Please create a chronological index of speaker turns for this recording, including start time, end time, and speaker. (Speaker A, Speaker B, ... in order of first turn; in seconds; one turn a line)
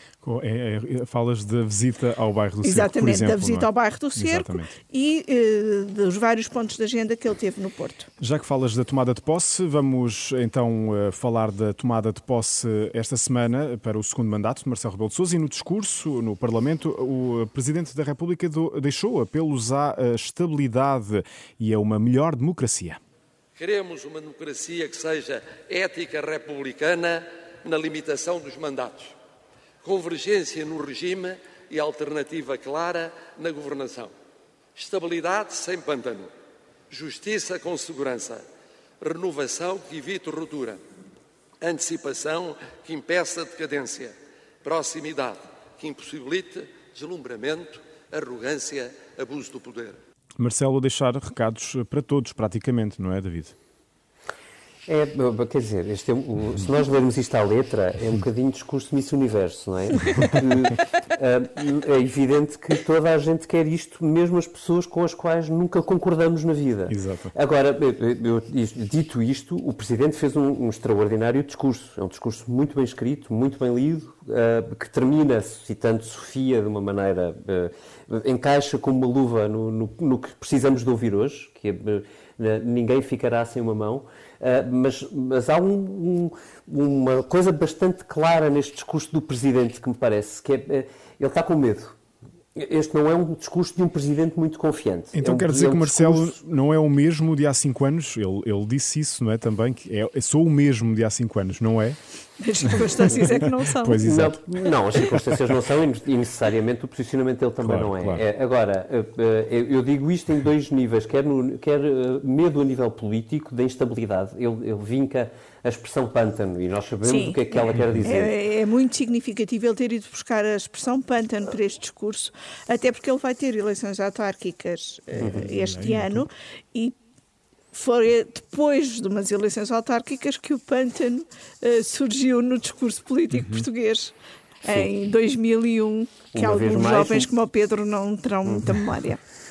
Speaker A: 0.2-4.8
Speaker B: 2.6-8.1
Speaker A: 8.2-23.0
Speaker C: 23.6-29.2
Speaker C: 29.8-34.1
Speaker C: 34.8-36.3
Speaker C: 36.9-38.4
Speaker C: 39.0-40.8
Speaker C: 41.6-50.0
Speaker A: 50.4-53.6
Speaker D: 54.9-92.0
Speaker A: 66.9-67.3
Speaker D: 92.6-96.4
Speaker A: 95.1-102.0
Speaker B: 102.4-104.0
Speaker A: 103.0-104.4
Speaker D: 104.0-118.3
Speaker A: 107.6-108.2
Speaker B: 117.0-117.4
Speaker B: 118.0-127.0
Speaker A: 125.2-126.2
Speaker D: 125.2-125.5
Speaker B: 127.7-139.2
Speaker A: 133.3-133.7
Speaker D: 136.3-137.3
Speaker D: 138.4-138.8